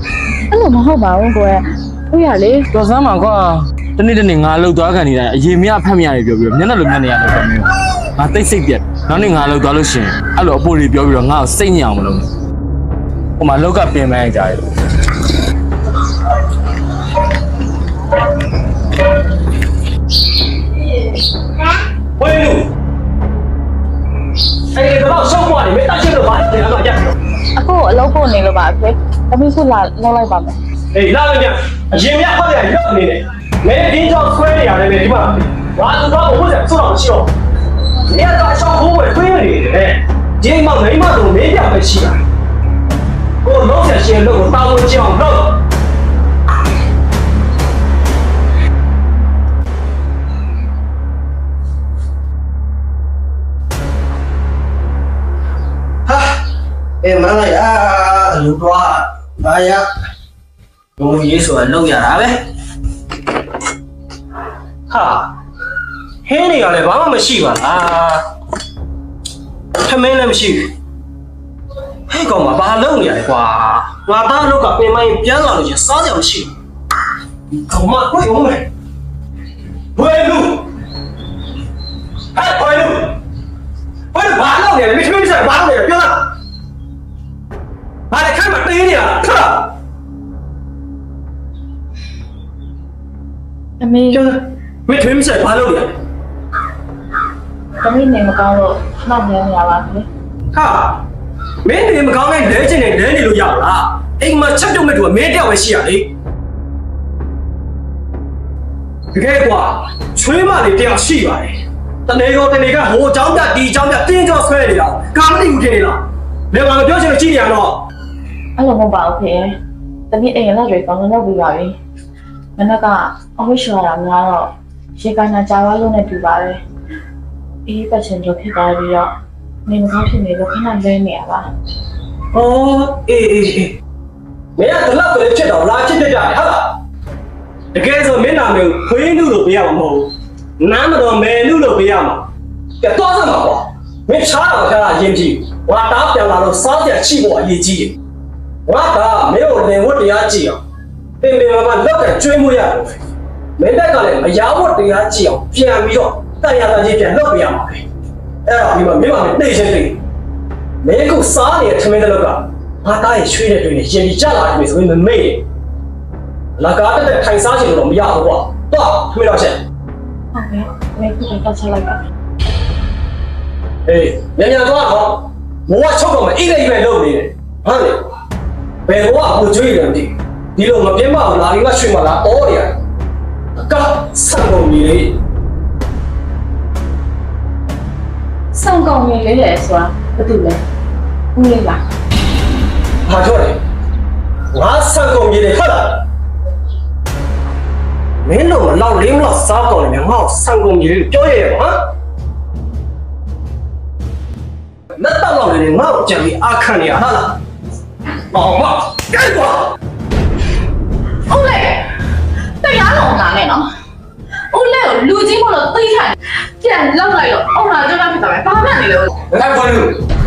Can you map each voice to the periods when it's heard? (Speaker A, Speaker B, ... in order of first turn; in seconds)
Speaker A: 0.5-2.7, 27.6-30.6, 93.8-94.2, 97.8-100.1, 118.5-119.5, 120.1-121.8, 122.5-126.6, 127.7-129.1, 129.7-131.5, 170.3-172.0, 188.5-190.6, 191.3-191.8, 211.3-211.9, 212.6-213.7, 214.5-219.2
Speaker B: 2.7-12.3, 13.4-14.6, 219.3-220.0
Speaker C: 22.2-22.7, 24.7-27.2, 30.9-37.3, 38.0-42.2, 43.4-45.6, 56.0-56.4, 57.0-59.9, 61.0-62.4, 64.9-65.4, 66.2-68.2, 69.8-70.7, 72.1-76.5, 77.5-78.7, 80.0-80.7, 82.3-83.2, 84.1-86.3, 88.1-89.7, 94.1-96.0, 100.5-101.0, 101.6-106.1, 109.1-117.9, 132.3-133.8, 134.6-136.8, 137.7-142.3, 142.8-148.0, 148.7-150.6, 151.2-153.0, 153.6-157.8, 158.4-160.0, 160.8-165.4, 166.6-169.6, 173.9-178.1, 178.9-182.8, 183.6-185.2, 193.1-193.6, 194.5-196.1, 198.2-201.8, 204.9-207.4, 208.3-209.7